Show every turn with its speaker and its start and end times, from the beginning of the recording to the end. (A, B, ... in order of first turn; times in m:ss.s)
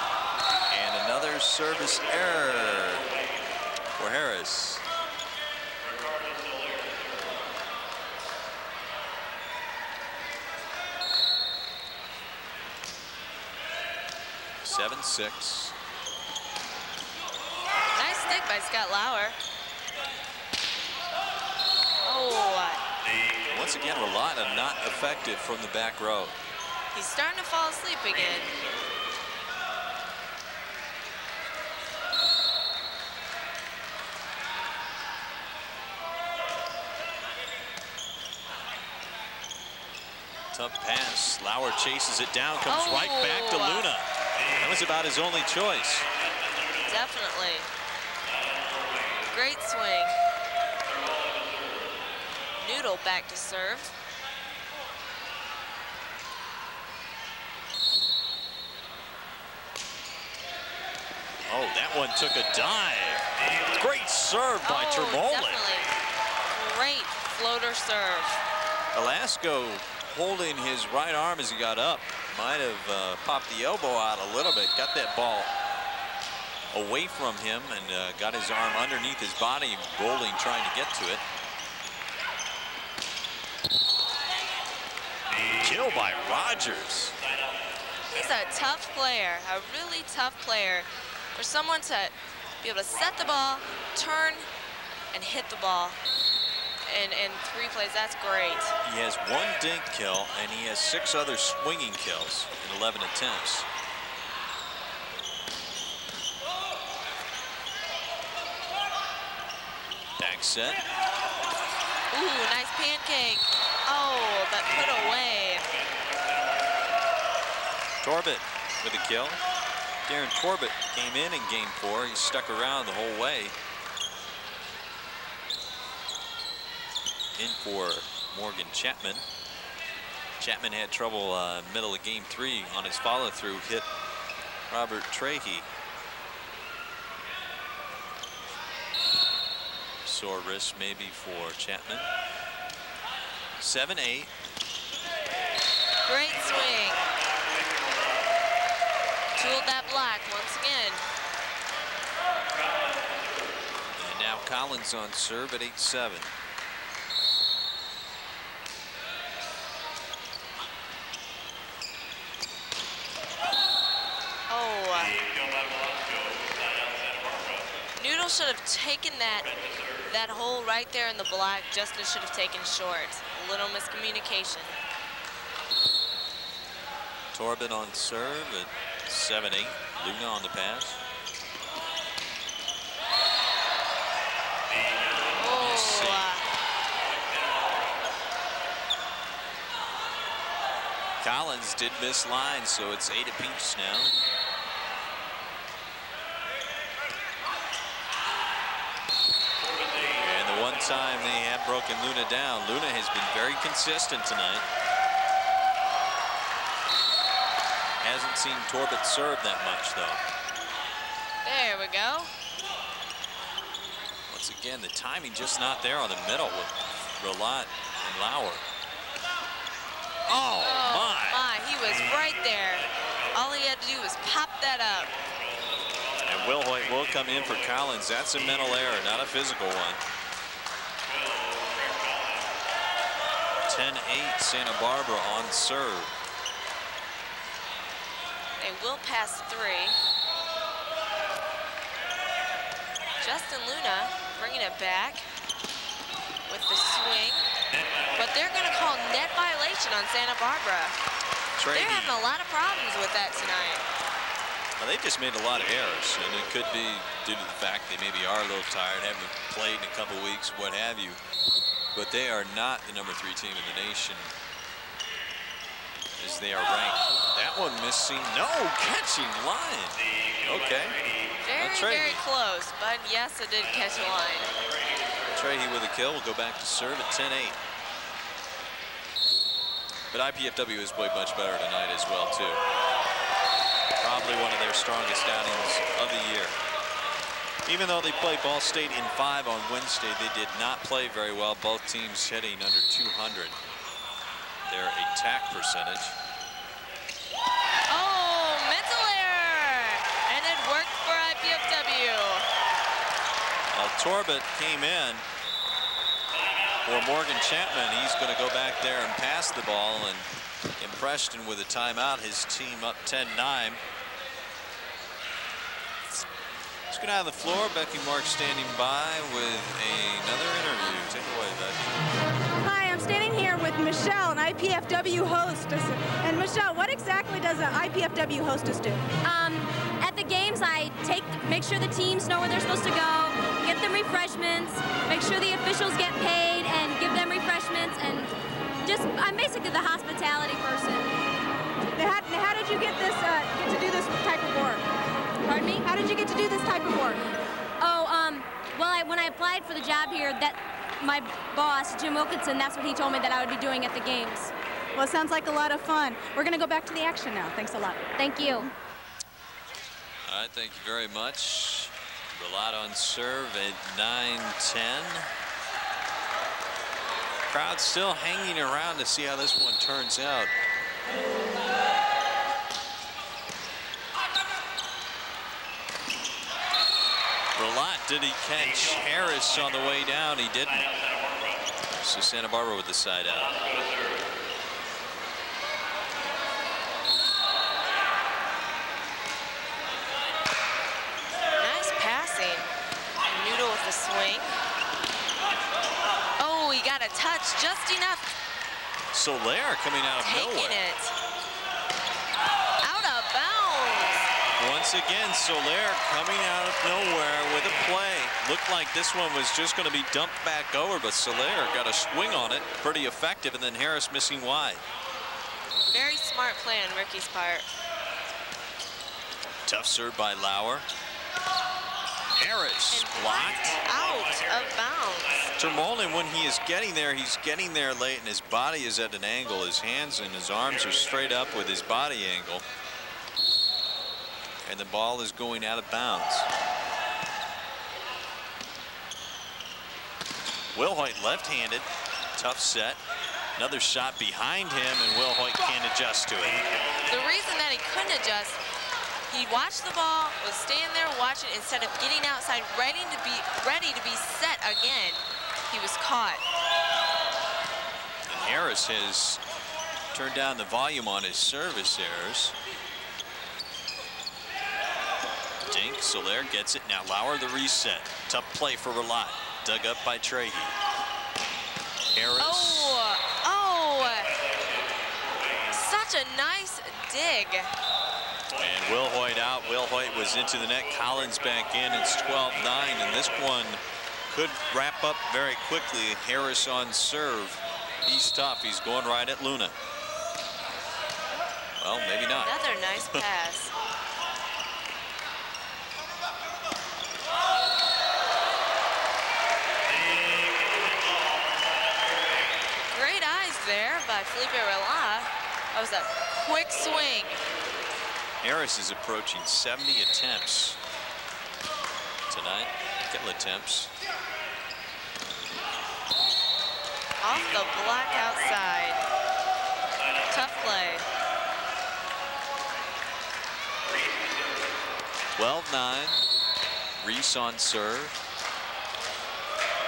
0:00.7-0:03.1 A
0:04.0-0:04.8 A
0:14.6-0:15.8 A
0:18.0-0:19.4 B
0:22.0-0:22.8 B
0:23.5-0:26.4 A
0:26.9-0:28.6 B
0:40.5-0:44.1 A
0:42.7-0:43.9 B
0:44.6-0:46.1 A
0:46.8-0:47.7 B
0:49.3-0:50.2 B
0:52.6-0:53.9 B
1:01.5-1:05.6 A
1:04.6-1:05.9 B
1:06.5-1:08.4 B
1:08.9-1:15.5 A
1:16.7-1:21.2 A
1:25.6-1:27.2 A
1:28.1-1:34.5 B
1:35.1-1:36.0 B
1:36.9-1:38.7 B
1:38.8-1:43.7 A
1:50.2-1:50.8 A
1:52.1-1:55.7 B
1:58.0-1:59.4 A
2:00.1-2:03.6 A
2:07.4-2:09.2 A
2:10.4-2:13.9 A
2:14.7-2:15.7 A
2:20.0-2:22.1 A
2:23.6-2:24.3 A
2:26.1-2:27.0 B
2:29.4-2:31.0 B
2:34.0-2:36.3 A
2:44.5-2:45.2 B
2:48.0-2:49.5 B
2:50.1-2:54.8 B
2:57.3-3:01.0 A
3:05.4-3:06.5 B
3:05.4-3:06.3 A
3:11.2-3:14.1 A
3:20.1-3:24.6 A
3:28.0-3:30.2 A
3:31.4-3:32.3 B
3:34.3-3:38.6 A
3:40.3-3:41.4 A
3:40.6-3:45.1 B
3:46.2-3:50.0 A
3:53.7-3:56.1 A
3:58.6-4:00.0 B
4:03.2-4:05.2 B
4:06.5-4:07.4 B
4:08.2-4:11.0 B
4:11.6-4:12.2 A
4:11.7-4:13.8 B
4:14.8-4:21.2 A
4:22.0-4:24.3 A
4:26.2-4:31.0 A
4:31.4-4:34.5 B
4:31.6-4:32.2 A
4:35.3-4:37.6 A
4:40.1-4:42.6 A
4:44.0-4:46.6 A
4:47.7-4:53.6 A
4:54.7-4:56.2 A
4:57.9-5:02.5 B
5:03.7-5:05.2 A
5:06.8-5:10.3 A
5:10.8-5:13.8 A
5:16.9-5:22.0 A
5:22.6-5:29.1 C
5:29.2-5:38.3 D
5:38.8-5:41.2 D
5:42.0-5:44.9 C
5:45.4-5:45.8 D
5:45.8-5:47.2 C
5:47.8-5:54.5 D
5:55.0-5:58.4 C
5:58.2-5:58.7 D
6:00.3-6:05.3 A
6:07.5-6:10.5 A
6:17.6-6:20.9 A
6:21.9-6:23.6 A
6:31.6-6:32.7 B
6:33.2-6:34.6 B
6:36.4-6:38.3 B
6:39.1-6:40.8 A
6:40.2-6:41.2 B
6:42.8-6:44.2 B
6:44.6-6:54.8 A
6:55.9-6:57.7 B
6:59.7-7:00.9 A
7:02.4-7:03.8 A
7:02.9-7:05.5 B
7:05.6-7:12.6 A
7:14.6-7:16.5 A
7:20.7-7:23.0 A
7:23.6-7:26.6 A
7:27.1-7:28.6 B
7:29.3-7:36.4 B
7:38.3-7:39.4 A
7:40.1-7:42.6 A
7:45.6-7:50.8 A
7:52.2-7:53.0 A
7:52.4-7:54.4 B
7:55.7-7:57.7 B
7:58.6-8:09.7 A
8:11.8-8:12.6 A
8:12.4-8:13.7 B
8:22.9-8:27.4 B
8:28.4-8:30.8 A
8:32.3-8:33.9 A
8:37.2-8:39.0 B
8:40.3-8:41.1 B
8:45.4-8:46.2 A
8:47.0-8:48.2 A